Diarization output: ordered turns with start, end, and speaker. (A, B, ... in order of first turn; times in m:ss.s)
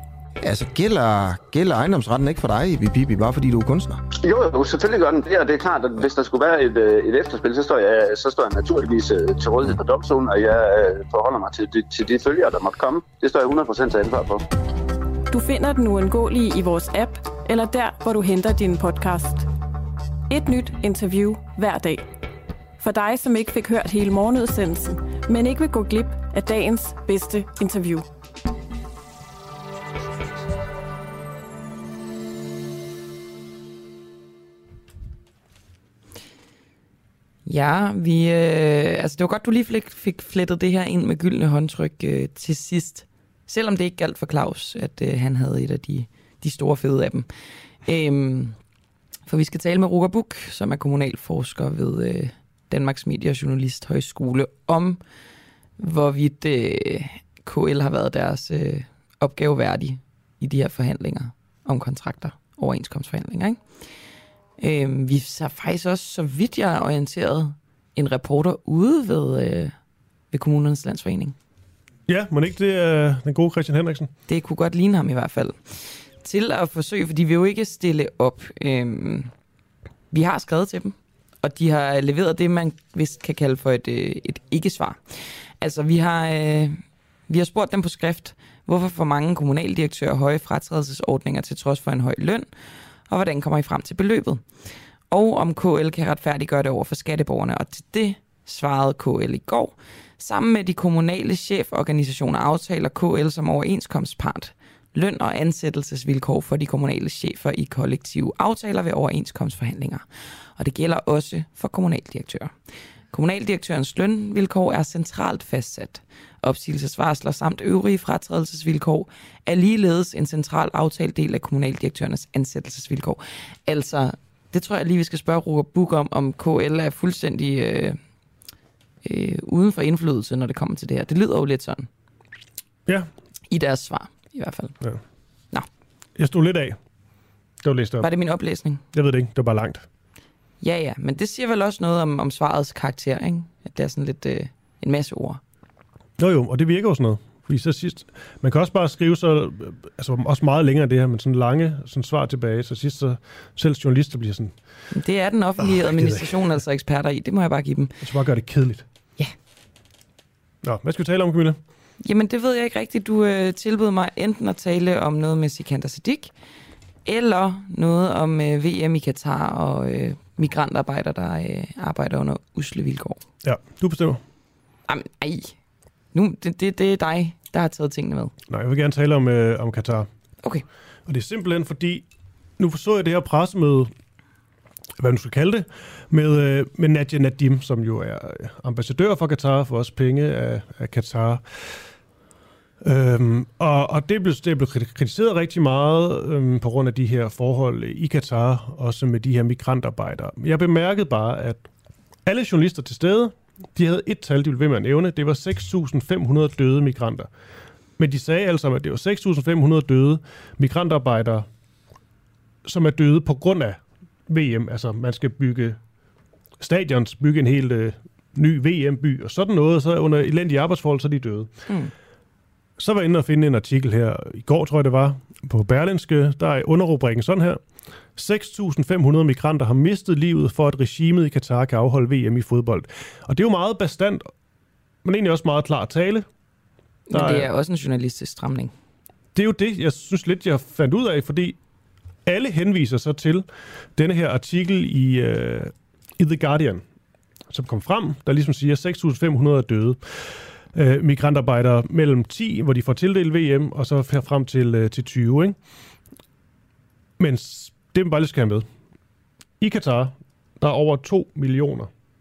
0:00.4-0:04.0 A
0:04.2-0:14.4 B
0:15.3-0:19.5 C
0:20.3-0:22.0 C
0:22.8-0:28.1 C
0:37.5-0:47.3 D
0:47.8-0:48.6 D
0:49.3-0:55.0 D
0:55.8-1:03.6 D
1:04.6-1:09.8 D
1:10.3-1:11.4 D
1:12.1-1:14.1 E
1:14.3-1:19.3 D
1:20.1-1:32.5 D
1:33.1-1:34.4 D
1:35.1-1:50.0 D
1:50.6-1:52.5 D
1:53.1-2:08.0 D
2:09.0-2:11.9 D
2:13.5-2:14.8 D
2:16.2-2:16.8 E
2:17.6-2:18.1 E
2:18.0-2:18.8 D
2:18.9-2:19.8 E
2:20.6-2:25.4 D
2:26.2-2:34.5 E
2:34.9-2:37.9 D
2:35.6-2:36.3 E
2:38.0-2:38.8 E
2:40.6-2:41.6 E
2:42.0-2:46.3 D
2:47.0-2:53.2 D
2:53.4-2:54.2 E
2:54.9-2:55.6 D
2:56.1-2:58.4 D
2:58.5-3:00.1 E
3:01.1-3:02.0 E
3:02.6-3:03.9 E
3:05.0-3:11.8 E
3:12.8-3:21.6 E
3:22.3-3:27.3 E
3:28.0-3:31.5 E
3:32.6-3:35.8 E
3:36.6-3:41.5 E
3:41.7-3:41.9 D
3:42.8-3:47.6 E
3:48.2-3:54.3 E
3:55.0-3:56.3 E
3:57.1-3:58.7 D
3:57.1-3:57.5 E
3:59.3-4:01.6 E
4:02.3-4:06.8 E
4:07.5-4:10.0 E
4:10.7-4:15.6 E
4:17.2-4:18.7 E
4:19.6-4:21.9 E